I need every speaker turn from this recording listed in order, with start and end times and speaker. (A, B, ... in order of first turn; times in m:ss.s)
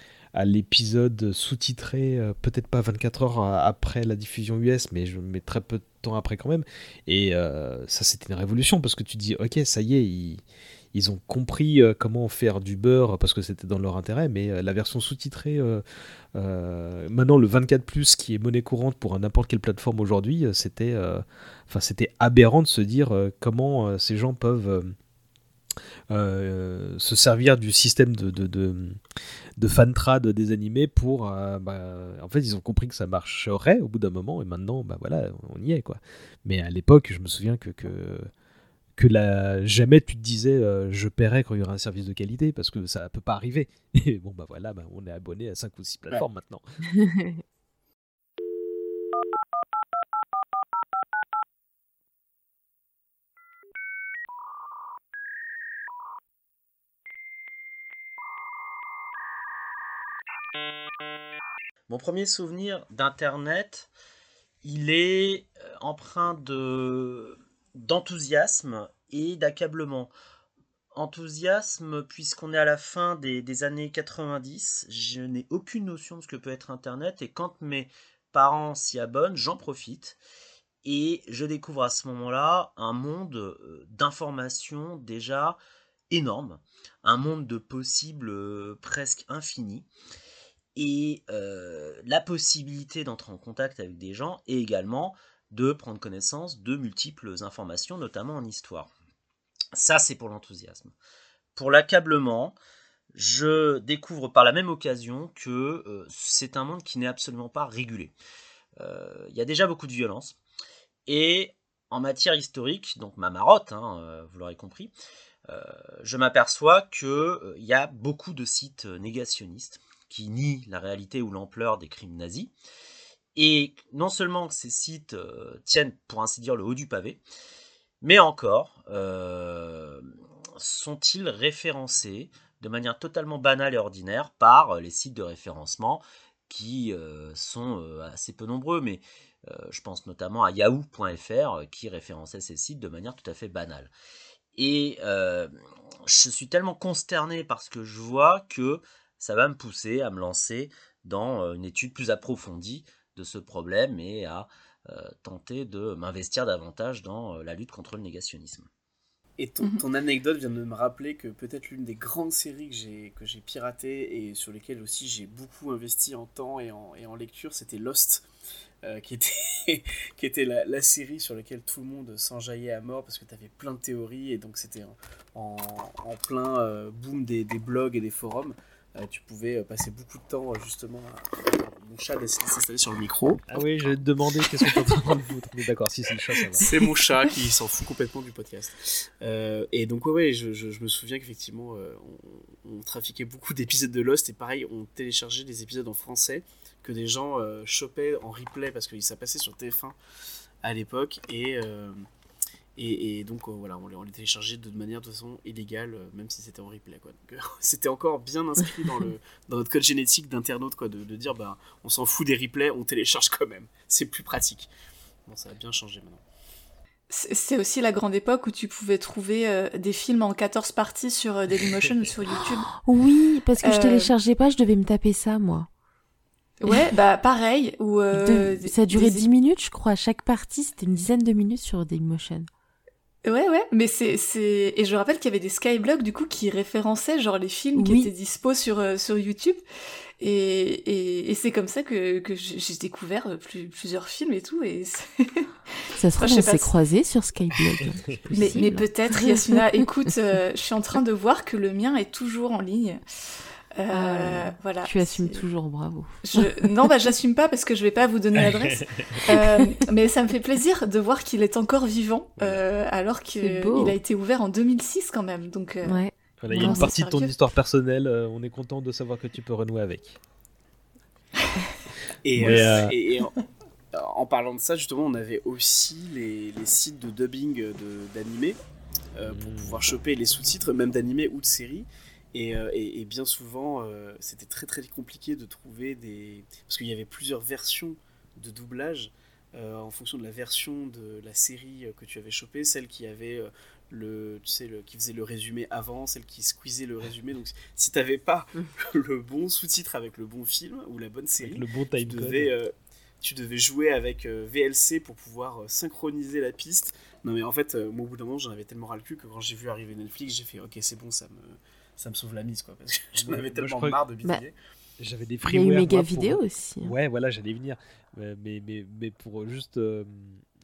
0:00.4-0:10.4 A
0:10.9-0:15.8 A
0:16.4-0:25.0 A
0:26.1-0:29.0 A
0:29.6-0:38.3 A
0:39.0-0:46.6 A
0:46.9-0:47.4 B
1:01.9-1:03.9 C
1:04.6-1:10.1 C
1:10.9-1:20.2 C
1:20.8-1:25.6 C
1:26.1-1:29.9 C
1:30.8-1:38.9 C
1:39.7-1:40.9 C
1:41.6-1:42.6 C
1:43.1-1:48.1 C
1:48.8-1:50.4 C
1:51.1-1:54.9 C
1:55.5-2:02.5 C
2:03.4-2:07.2 C
2:08.0-2:23.9 C
2:24.6-2:38.7 C
2:39.4-2:48.3 D
2:48.8-3:03.4 D
3:03.5-3:06.6 A
3:06.6-3:20.0 D
3:20.6-3:22.0 D
3:22.8-3:34.7 D
3:35.3-3:36.2 D
3:37.1-3:42.7 E
3:42.8-3:45.7 B
3:43.6-3:44.1 E
3:46.6-3:49.2 E
3:48.2-3:52.5 B
3:53.2-3:59.6 E
3:57.8-3:58.1 B
4:00.2-4:05.5 E
4:06.0-4:09.6 B
4:06.2-4:06.7 E
4:08.3-4:13.0 E
4:13.8-4:15.5 E
4:13.9-4:16.6 B
4:16.2-4:27.3 E
4:18.5-4:19.0 A
4:19.3-4:19.6 B
4:23.4-4:24.0 B
4:25.8-4:26.9 B
4:26.4-4:30.2 A
4:32.2-4:33.3 D
4:32.4-4:33.0 A
4:33.9-4:38.6 D
4:39.2-5:14.6 D
4:39.2-4:39.8 A
5:01.4-5:02.5 A
5:13.1-5:14.0 A
5:15.0-5:20.4 A
5:15.4-5:17.0 B